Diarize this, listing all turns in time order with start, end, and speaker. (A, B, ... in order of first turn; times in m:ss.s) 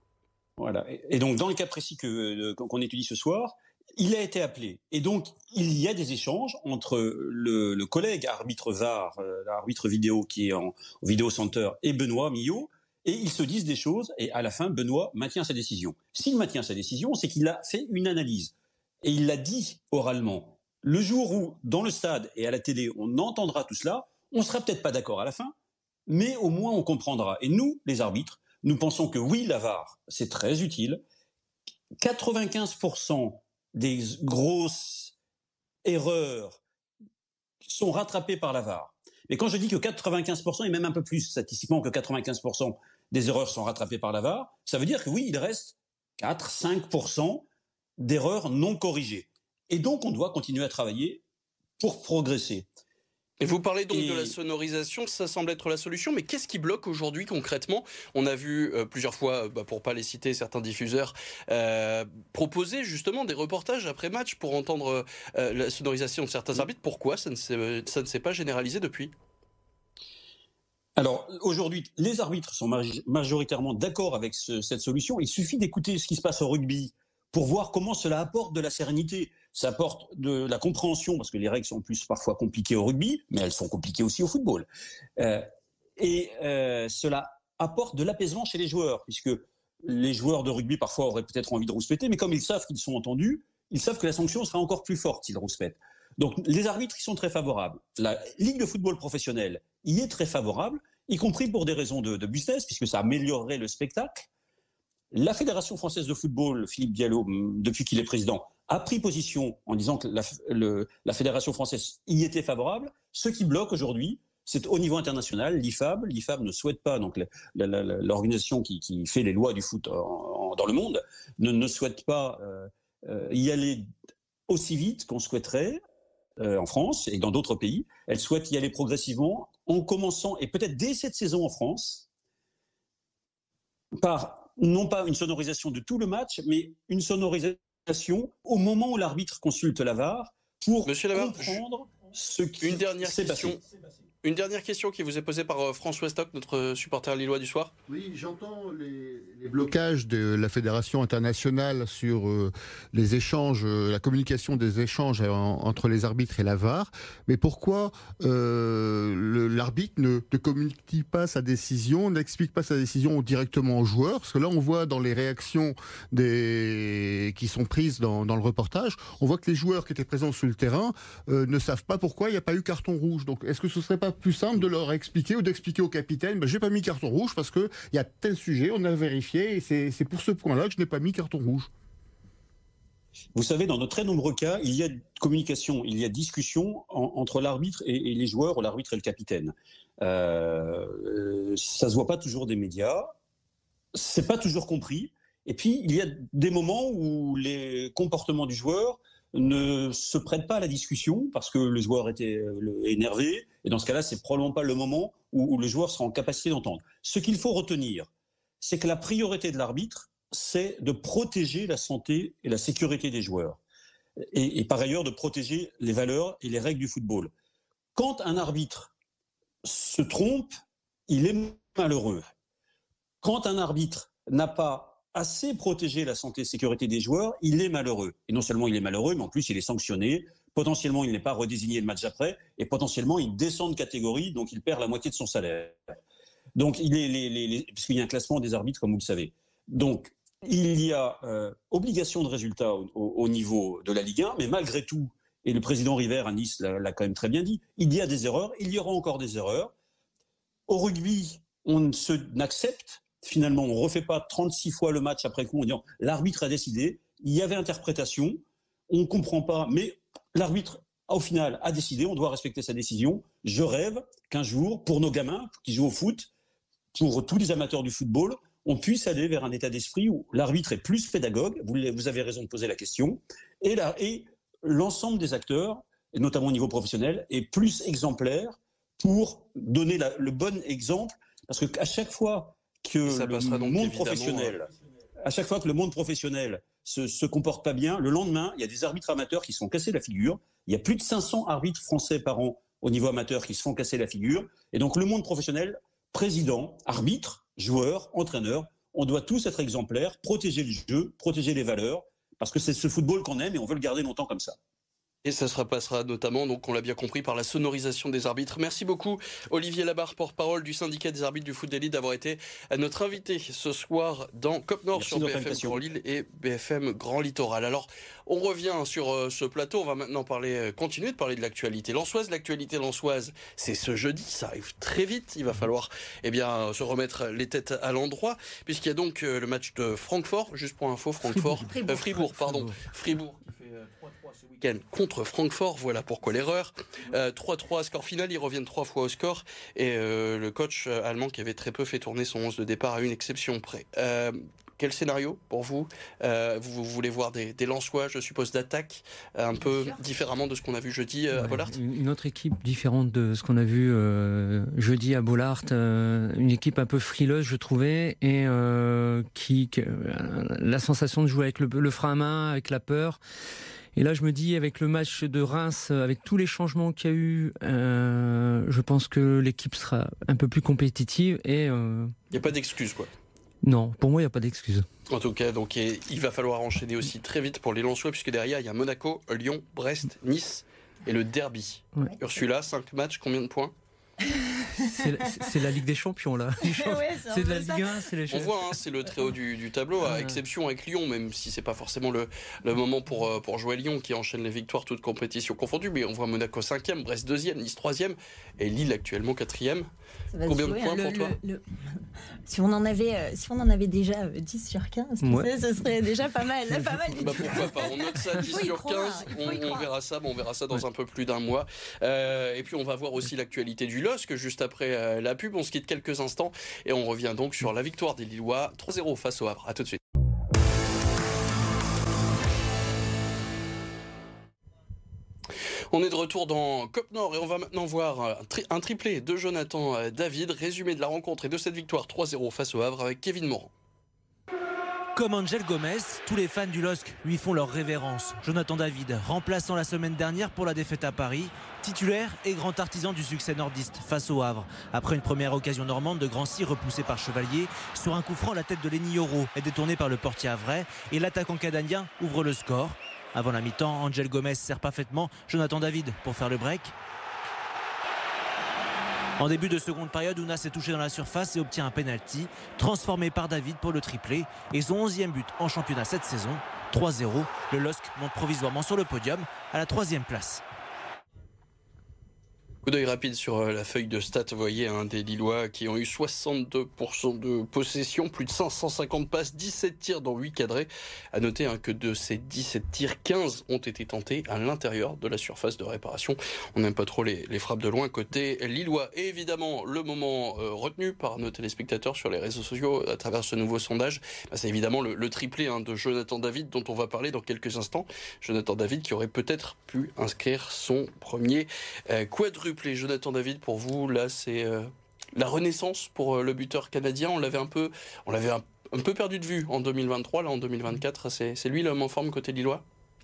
0:00.6-0:25.5 A
0:26.1-0:31.0 A
0:32.0-0:35.1 A
0:35.8-0:36.6 A
0:37.7-0:47.4 A
0:48.0-0:51.2 A
0:51.8-0:52.7 A
0:53.4-1:09.1 B
0:53.9-0:54.4 A
1:11.0-1:24.7 A
1:25.2-1:25.5 A
1:26.0-1:44.3 A
1:45.1-2:03.9 A
2:04.5-2:05.8 A
2:06.4-2:12.0 A
2:14.0-2:23.6 A
2:20.8-2:21.6 B
2:22.6-2:23.6 B
2:24.2-2:27.7 B
2:27.9-3:01.7 C
3:03.4-3:13.1 A
3:13.9-3:28.1 A
3:28.6-3:33.6 A
3:34.3-3:37.3 A
3:38.0-3:38.9 A
3:39.6-3:40.5 A
3:41.1-3:42.3 A
3:43.2-3:55.8 A
3:56.6-4:09.7 A
4:10.7-4:26.3 A
4:26.9-4:44.7 A
4:43.0-4:44.6 B
4:45.2-5:04.6 A
5:05.2-5:33.5 B
5:15.0-5:15.8 A
5:31.7-5:32.2 D
5:32.2-5:32.7 E
5:34.6-5:51.7 B
5:51.3-6:03.2 E
6:04.0-6:12.2 E
6:12.3-6:13.1 B
6:13.6-6:14.9 E
6:15.1-6:23.7 B
6:24.8-6:28.5 E
6:26.6-6:28.1 D
6:28.3-6:39.9 B
6:30.0-6:30.4 E
6:40.3-6:49.9 D
6:40.5-6:41.4 B
6:45.2-6:45.5 E
6:47.2-7:00.0 B
7:05.9-7:13.7 B
7:15.1-7:36.9 F
7:39.4-7:50.6 F
7:52.8-8:32.8 B